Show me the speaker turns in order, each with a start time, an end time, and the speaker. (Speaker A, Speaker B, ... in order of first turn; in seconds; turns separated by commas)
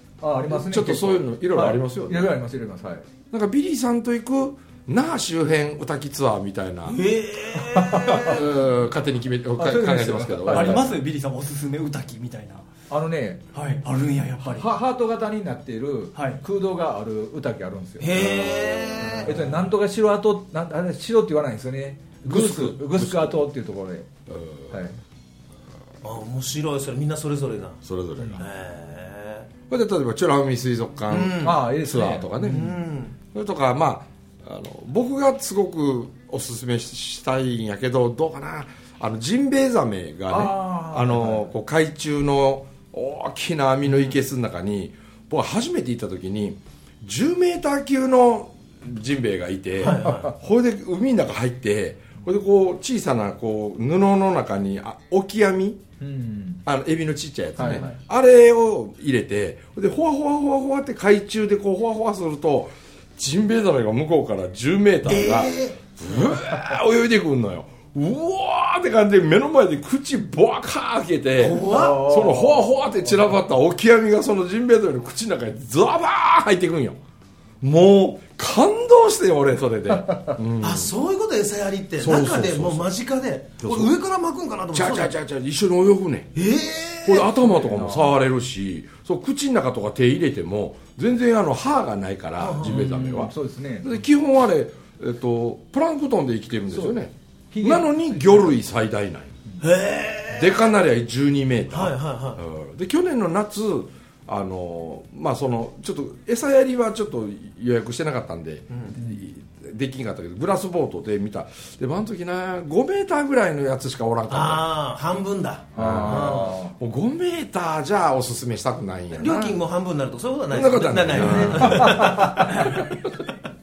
Speaker A: 0.2-3.1, Speaker B: 0.5-2.4, Speaker B: 3.3-7.0, Speaker C: 6.9-8.4, Speaker A: 7.7-8.4, Speaker B: 8.2-11.0, Speaker A: 9.6-10.9, Speaker D: 10.5-12.7, Speaker A: 12.9-13.4, Speaker D: 13.5-14.7, Speaker A: 14.4-18.2, Speaker D: 16.1-16.4, Speaker C: 18.0-19.4, Speaker B: 18.1-19.2, Speaker A: 19.2-24.1, Speaker B: 22.2-23.4, Speaker B: 24.3-24.8, Speaker A: 24.7-25.0, Speaker C: 26.0-27.8, Speaker B: 27.8-28.5, Speaker C: 28.3-29.5, Speaker B: 29.7-32.7, Speaker C: 31.1-31.6, Speaker A: 31.4-32.7, Speaker C: 32.4-33.2, Speaker B: 33.3-55.8, Speaker A: 40.3-41.5, Speaker C: 49.8-50.3, Speaker A: 49.8-50.3, Speaker A: 56.0-56.6, Speaker B: 56.7-77.0, Speaker A: 57.6-57.9, Speaker C: 65.0-65.8, Speaker C: 71.4-72.1, Speaker A: 71.6-72.7, Speaker B: 77.6-80.9, Speaker A: 80.1-80.3, Speaker C: 80.6-85.1, Speaker B: 82.0-82.9, Speaker B: 83.6-83.9, Speaker B: 84.7-86.3, Speaker C: 86.3-87.3, Speaker B: 87.0-99.4, Speaker A: 87.4-88.1, Speaker C: 92.4-92.9, Speaker A: 92.6-94.0, Speaker A: 96.7-97.0, Speaker A: 97.5-98.5, Speaker C: 99.6-100.7, Speaker B: 100.3-114.6, Speaker C: 101.7-102.4, Speaker C: 108.7-109.0, Speaker C: 114.3-116.6, Speaker A: 115.8-116.7, Speaker B: 115.8-119.6, Speaker C: 119.1-122.8, Speaker B: 120.5-123.1, Speaker A: 121.2-122.5